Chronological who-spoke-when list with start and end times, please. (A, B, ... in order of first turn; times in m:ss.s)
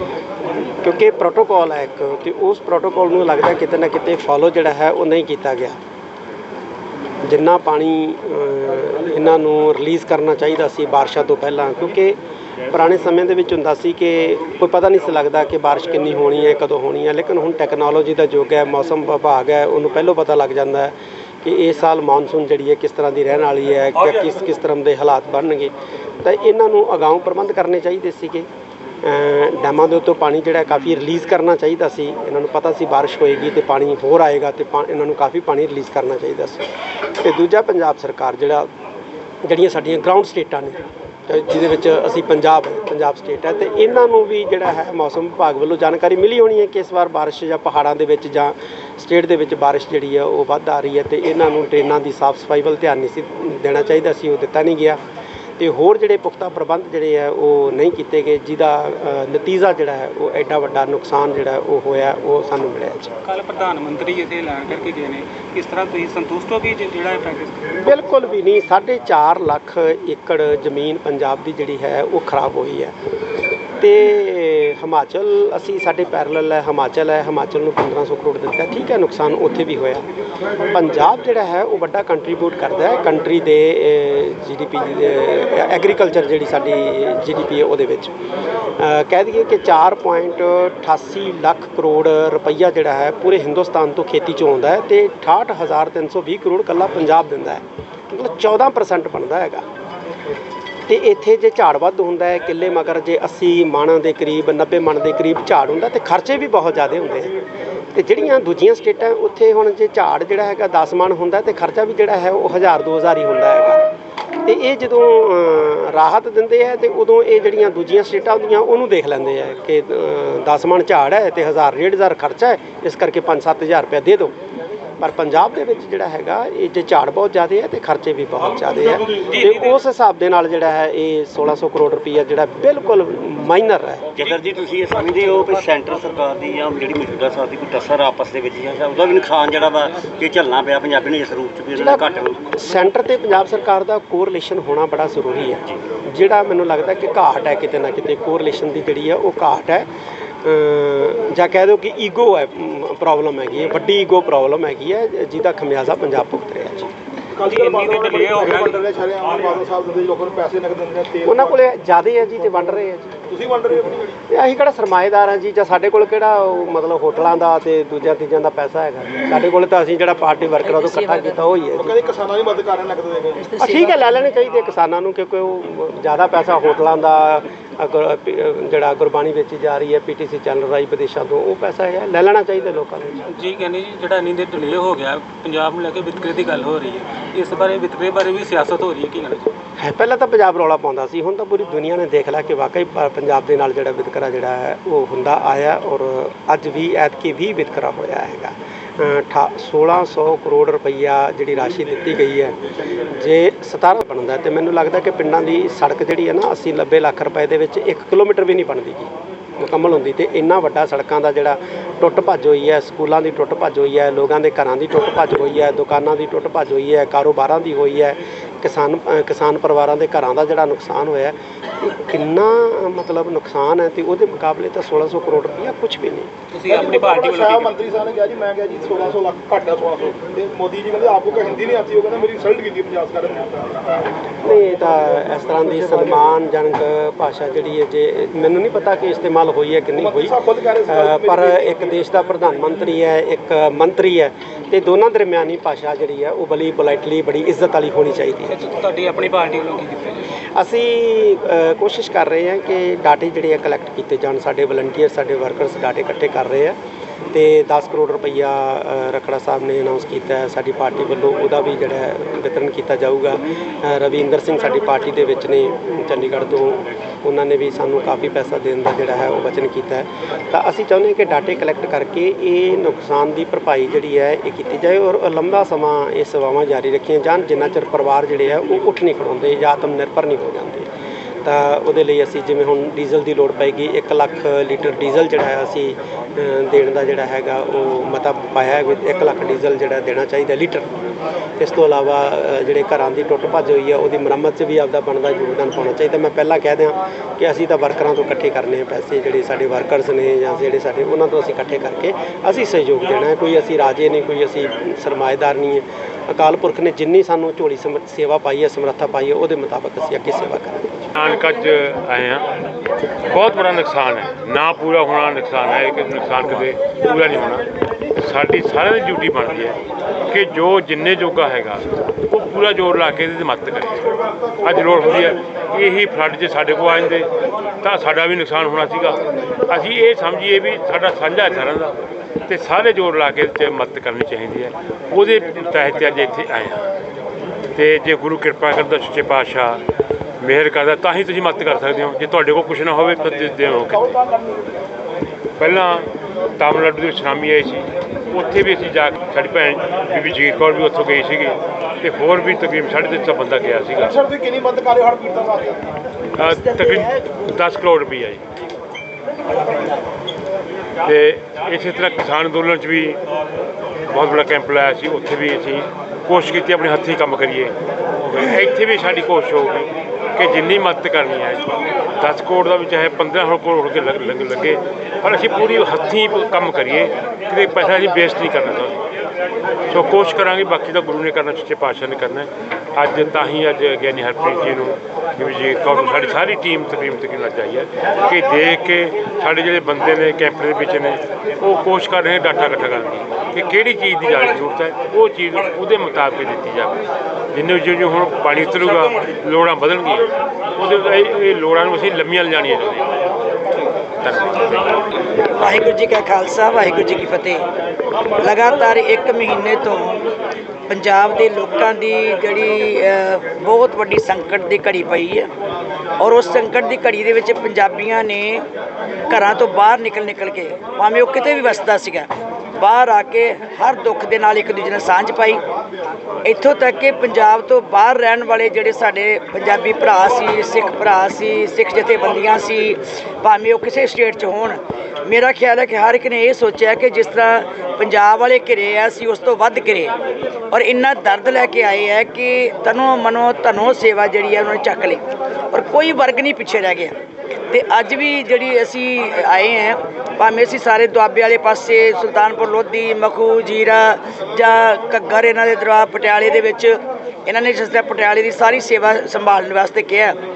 0:00.8-0:05.8 A
0:07.2-0:12.2 A
0:12.7-0:28.5 A
0:29.0-0:36.7 A
0:37.2-0:38.7 A
0:39.4-0:40.8 A
0:41.3-0:55.0 A
0:55.6-1:03.1 A
1:03.2-1:07.6 B
1:07.8-1:12.9 A
1:13.8-1:20.1 A
1:20.7-1:28.1 A
1:28.8-1:39.6 A
1:40.9-1:47.3 A
1:47.9-1:53.8 A
1:54.4-2:04.3 A
2:05.0-2:14.2 A
2:09.3-2:09.7 B
2:14.2-2:15.7 B
2:14.3-2:22.4 C
2:21.8-2:29.9 A
2:30.4-2:36.9 A
2:37.3-2:41.6 D
2:37.5-2:38.8 B
2:41.2-2:43.1 A
2:43.3-2:44.1 D
2:44.3-2:52.0 A
2:51.8-2:53.5 D
2:53.6-3:03.2 A
3:03.3-3:09.5 B
3:09.8-3:22.6 A
3:23.2-3:46.3 A
3:46.5-3:47.7 B
3:46.7-3:54.0 D
3:54.4-4:08.5 A
3:55.8-3:56.2 D
4:00.0-4:01.9 D
4:08.5-4:10.2 B
4:10.6-4:16.8 A
4:17.3-4:40.9 A
4:41.4-4:50.9 A
4:51.6-5:10.9 A
5:11.1-5:12.4 E
5:13.3-5:17.6 E
5:18.2-5:19.8 E
5:20.3-5:27.3 E
5:27.8-5:31.9 E
5:32.5-5:36.9 E
5:37.8-5:39.8 E
5:40.4-5:44.0 E
5:43.9-5:44.8 D
5:45.6-5:54.2 E
5:54.0-5:55.8 D
5:56.4-5:58.4 E
6:01.0-6:03.2 E
6:04.1-6:11.6 E
6:12.2-6:19.0 E
6:19.9-6:37.0 E
6:37.5-6:43.1 E
6:44.2-6:44.9 E
6:45.4-6:47.6 F
6:48.4-6:50.2 F
6:50.9-6:55.5 F
6:56.2-6:58.6 F
6:59.3-7:05.6 F
7:06.4-7:20.1 F
7:20.7-7:27.1 F
7:27.7-7:40.4 F